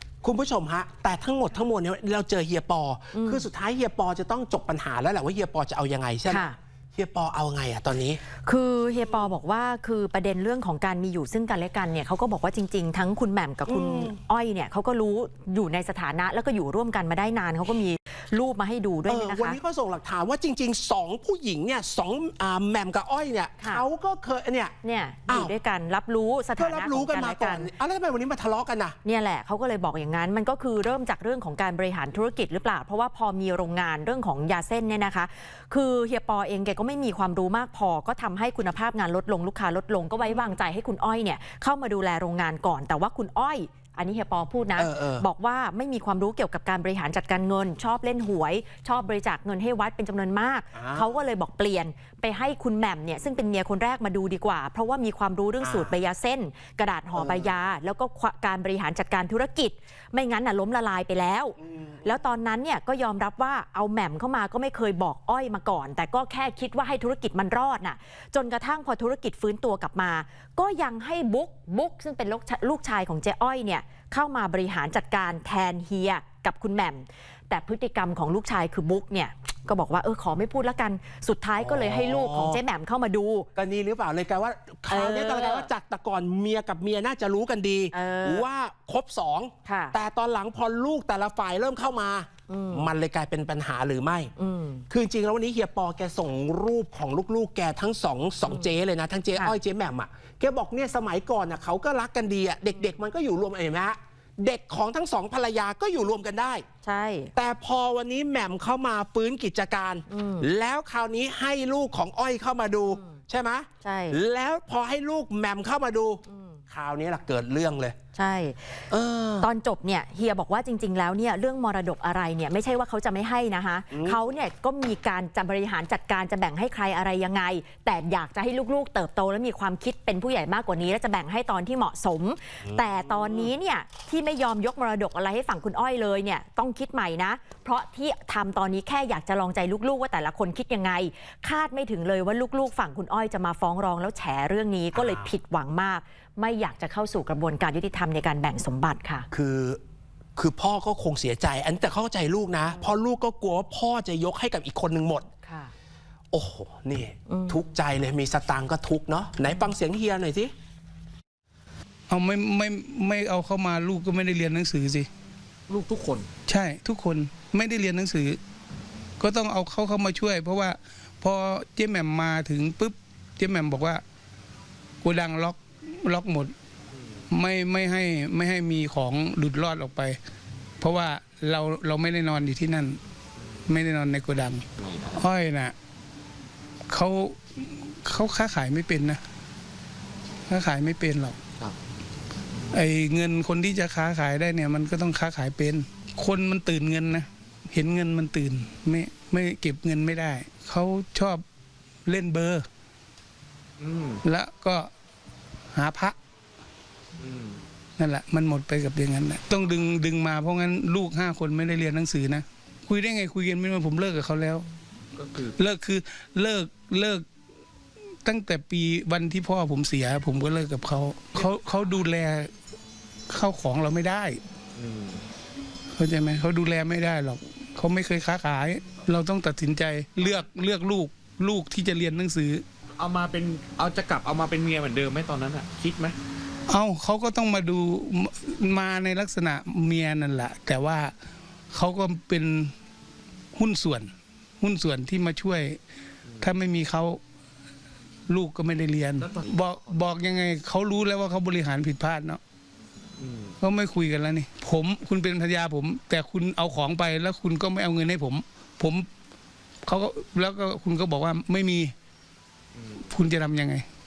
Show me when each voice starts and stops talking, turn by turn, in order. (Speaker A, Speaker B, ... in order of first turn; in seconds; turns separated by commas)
Speaker A: 0.2-8.2, Speaker B: 3.1-3.5, Speaker B: 6.3-6.5, Speaker B: 8.4-19.6, Speaker A: 13.7-14.2, Speaker A: 19.1-24.8, Speaker B: 24.8-27.7, Speaker A: 25.3-25.5, Speaker A: 26.6-29.0, Speaker B: 29.1-83.5, Speaker A: 44.8-45.2, Speaker A: 50.7-51.2, Speaker A: 55.6-55.9, Speaker A: 57.1-57.5, Speaker A: 81.6-82.6, Speaker A: 83.6-94.3, Speaker B: 84.9-85.7, Speaker B: 87.9-88.5, Speaker B: 89.7-90.0, Speaker B: 92.5-92.9, Speaker B: 94.4-94.8, Speaker A: 94.9-106.7, Speaker B: 106.8-107.3, Speaker A: 107.3-118.0, Speaker B: 110.1-110.5, Speaker B: 112.9-113.2, Speaker B: 113.8-114.2, Speaker B: 116.3-116.6, Speaker B: 118.2-118.9, Speaker A: 118.9-119.5, Speaker B: 119.4-149.3, Speaker A: 123.9-124.2, Speaker A: 132.6-133.5, Speaker A: 144.9-145.3, Speaker A: 149.3-149.8, Speaker A: 150.4-155.3, Speaker B: 155.4-155.7, Speaker A: 156.3-160.5, Speaker B: 157.3-157.6, Speaker C: 162.1-165.1, Speaker D: 165.7-166.3, Speaker C: 166.5-168.4, Speaker C: 169.2-174.0, Speaker C: 175.0-176.5, Speaker C: 177.3-180.2, Speaker C: 180.8-183.0, Speaker C: 183.7-185.7, Speaker D: 184.8-185.2, Speaker C: 186.9-189.2, Speaker C: 190.5-191.4, Speaker C: 192.7-201.4, Speaker C: 202.1-202.7, Speaker D: 203.8-204.2, Speaker C: 204.2-204.9, Speaker C: 205.7-206.2, Speaker D: 207.2-207.6, Speaker C: 208.0-214.7, Speaker D: 215.2-215.5, Speaker C: 215.6-217.2, Speaker C: 218.2-222.5, Speaker C: 223.3-224.4, Speaker D: 224.8-225.2, Speaker C: 226.0-232.6, Speaker D: 233.0-236.2, Speaker C: 236.7-241.1, Speaker C: 241.7-242.7, Speaker C: 243.6-244.1, Speaker C: 244.6-245.8, Speaker C: 246.4-247.2, Speaker C: 248.3-252.4, Speaker D: 249.2-250.0, Speaker D: 253.2-253.6, Speaker C: 253.6-259.1, Speaker C: 259.9-261.9, Speaker D: 262.8-263.0, Speaker C: 263.1-263.9